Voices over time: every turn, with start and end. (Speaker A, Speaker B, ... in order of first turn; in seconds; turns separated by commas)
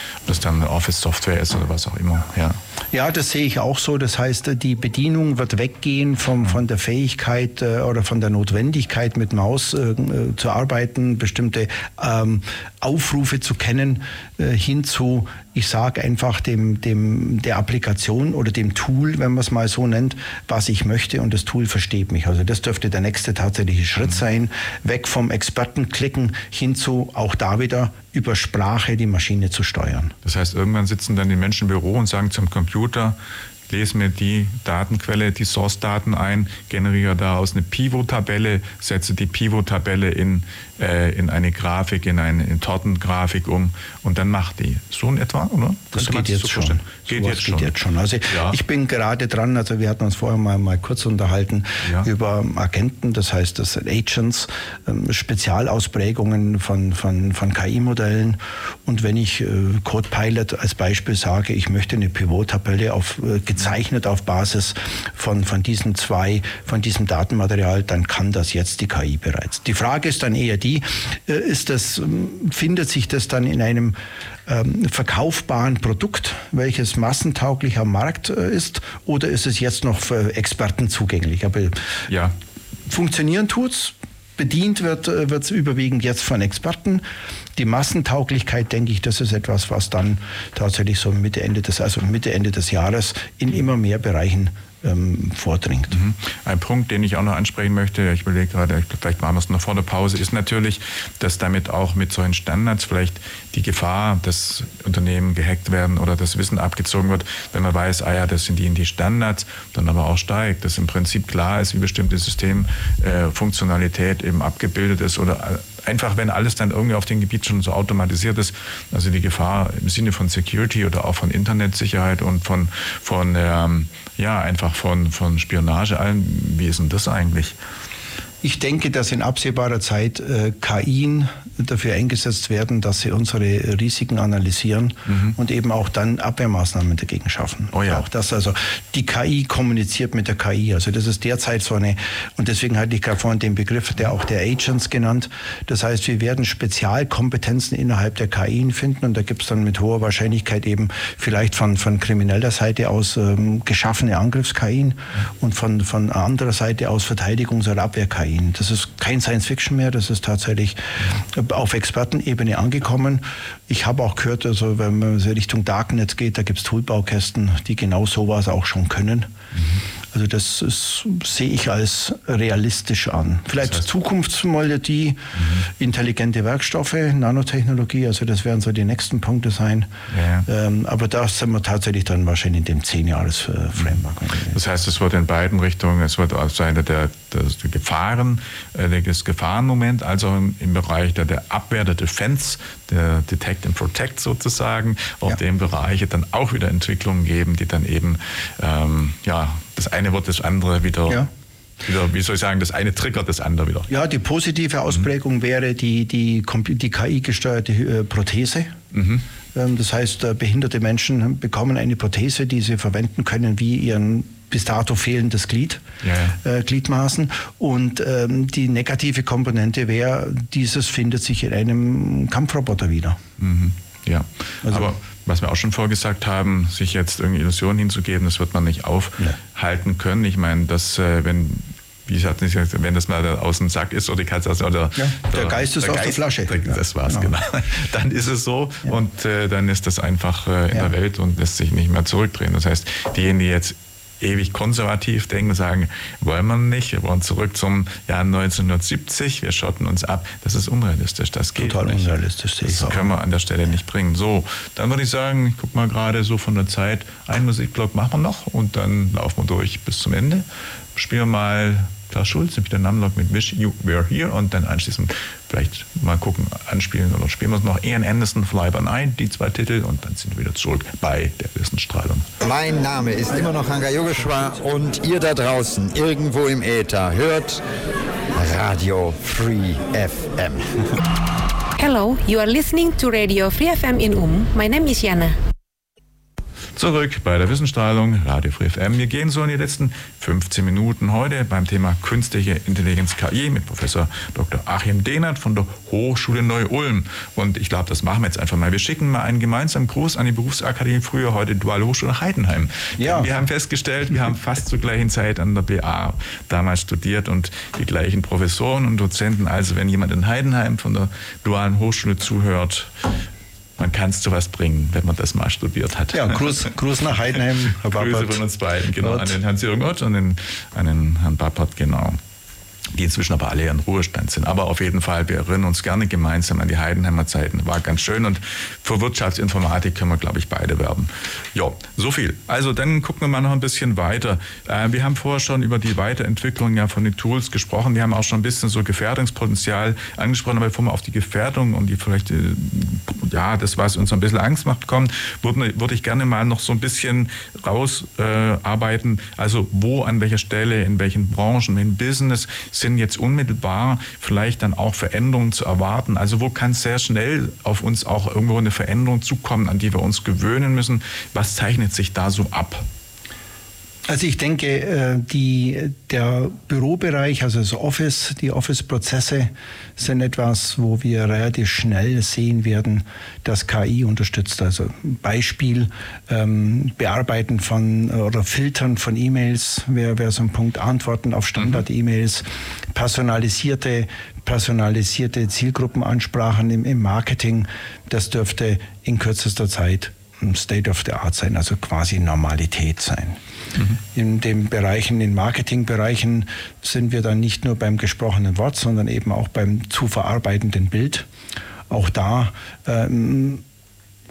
Speaker A: 0.2-2.6, Speaker B: 2.9-30.1, Speaker A: 30.2-33.2, Speaker A: 33.7-48.6, Speaker B: 45.9-81.9, Speaker A: 82.1-82.3, Speaker B: 82.9-87.0, Speaker B: 87.6-96.0, Speaker A: 95.9-127.6, Speaker B: 128.4-169.3, Speaker A: 135.1-135.4, Speaker A: 137.7-138.1, Speaker A: 169.6-169.8, Speaker B: 170.1-179.9, Speaker A: 173.6-173.9, Speaker A: 175.3-175.7, Speaker A: 180.1-180.5, Speaker B: 180.5-184.6, Speaker A: 184.5-201.3, Speaker A: 201.8-203.9, Speaker B: 203.9-208.8, Speaker A: 208.9-209.2, Speaker B: 209.5-215.8, Speaker A: 216.0-216.4, Speaker B: 216.4-223.2, Speaker A: 223.4-252.1, Speaker B: 224.6-224.9, Speaker B: 235.0-237.3, Speaker B: 251.6-253.1, Speaker A: 252.6-272.3, Speaker C: 272.4-277.6, Speaker C: 278.4-280.7, Speaker D: 281.8-285.4, Speaker A: 286.8-313.1, Speaker B: 303.0-303.3, Speaker A: 313.8-316.7, Speaker B: 316.1-318.4, Speaker A: 317.8-322.2, Speaker B: 319.0-319.4, Speaker A: 322.9-362.9, Speaker B: 364.1-393.4, Speaker A: 381.6-381.8, Speaker B: 394.1-401.3, Speaker B: 401.9-403.6